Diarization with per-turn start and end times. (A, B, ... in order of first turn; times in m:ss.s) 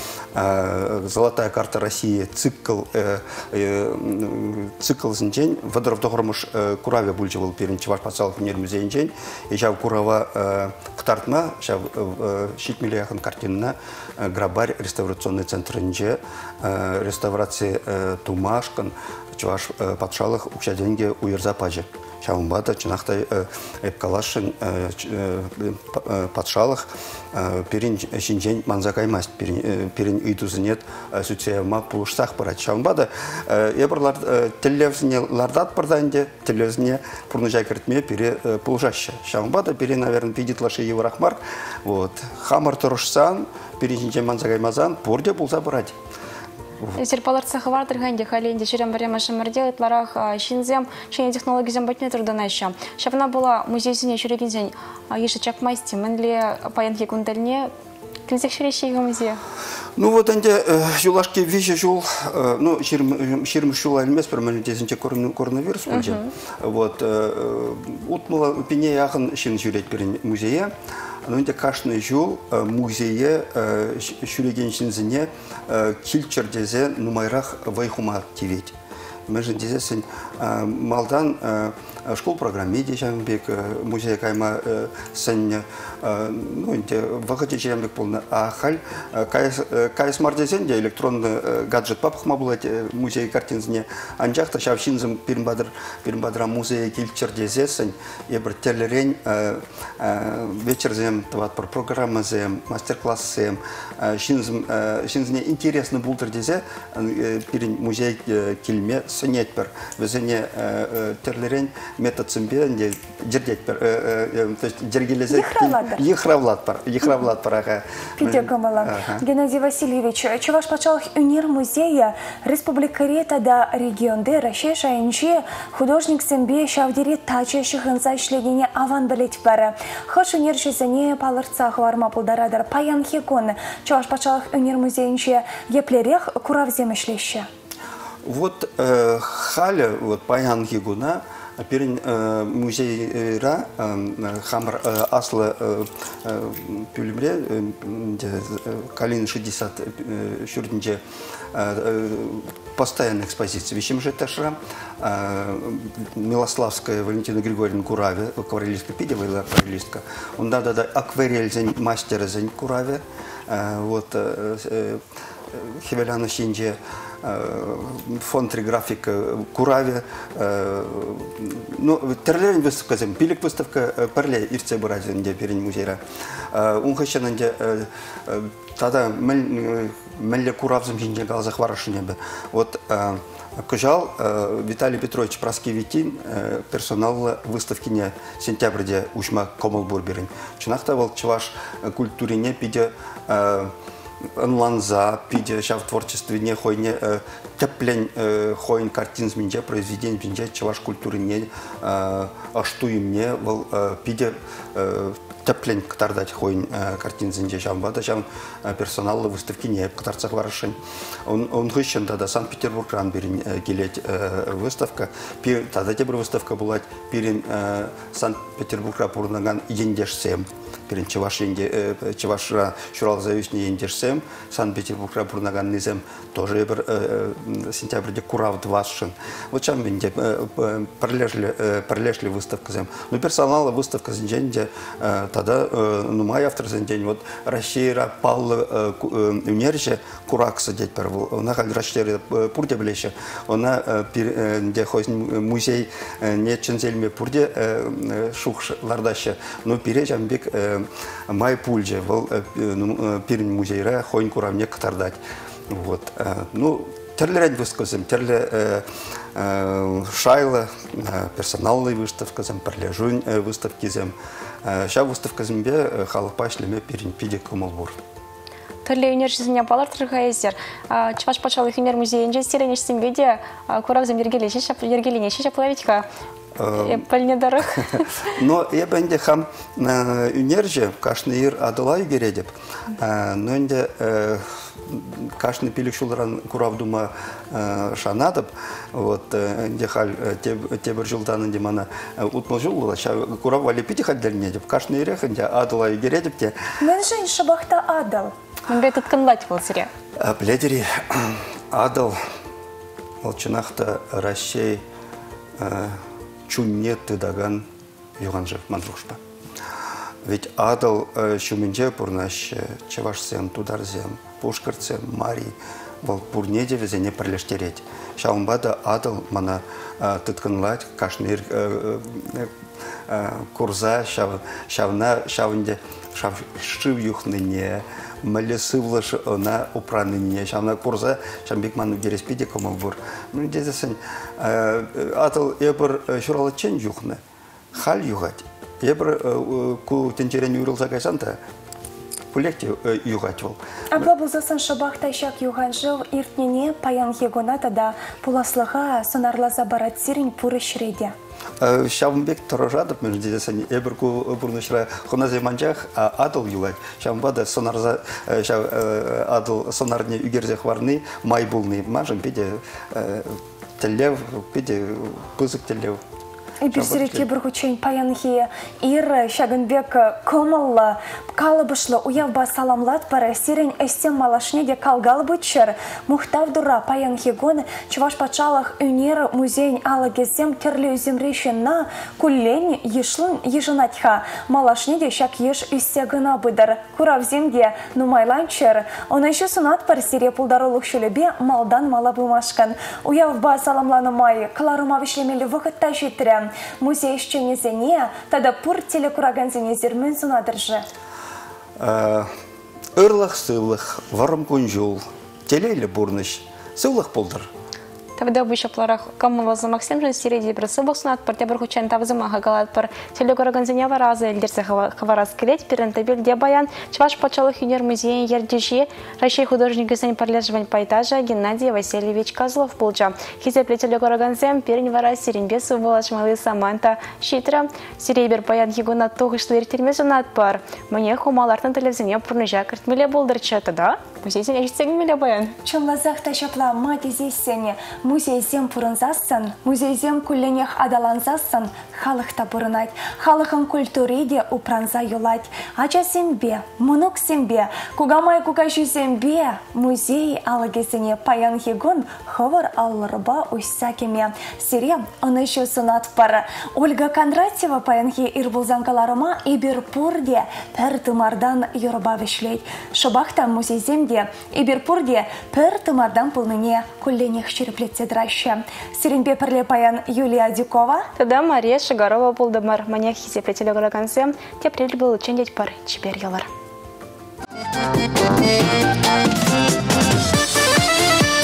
0:00.3-0:45.9 A
0:47.0-0:57.7 B
0:58.3-0:59.4 B
1:00.0-1:10.7 A
1:05.9-1:06.3 B
1:11.2-1:18.7 A
1:19.3-1:59.2 A
1:55.3-1:56.0 C
1:58.2-2:17.5 C
2:18.2-2:31.0 A
2:31.5-2:45.0 A
2:45.5-2:56.0 A
2:56.5-3:13.7 A
3:14.4-4:15.2 A
4:15.7-4:28.0 A
4:28.8-4:36.0 B
4:36.6-4:37.0 A
4:36.8-4:38.2 B
4:37.8-4:56.6 A
4:56.8-4:58.3 C
4:58.7-4:59.9 B
5:00.2-5:02.2 A
5:03.2-5:04.8 A
5:05.6-5:07.6 A
5:08.2-5:09.2 A
5:10.2-5:22.5 A
5:23.1-5:37.2 A
5:37.7-5:41.4 A
5:42.3-5:44.0 A
5:43.9-5:51.1 C
5:51.6-6:06.0 A
6:06.6-6:40.8 C
6:06.7-6:07.2 A
6:41.8-6:42.3 A
6:43.0-6:47.5 A
6:48.2-7:15.6 B
7:15.6-7:51.1 C
7:51.2-7:56.5 B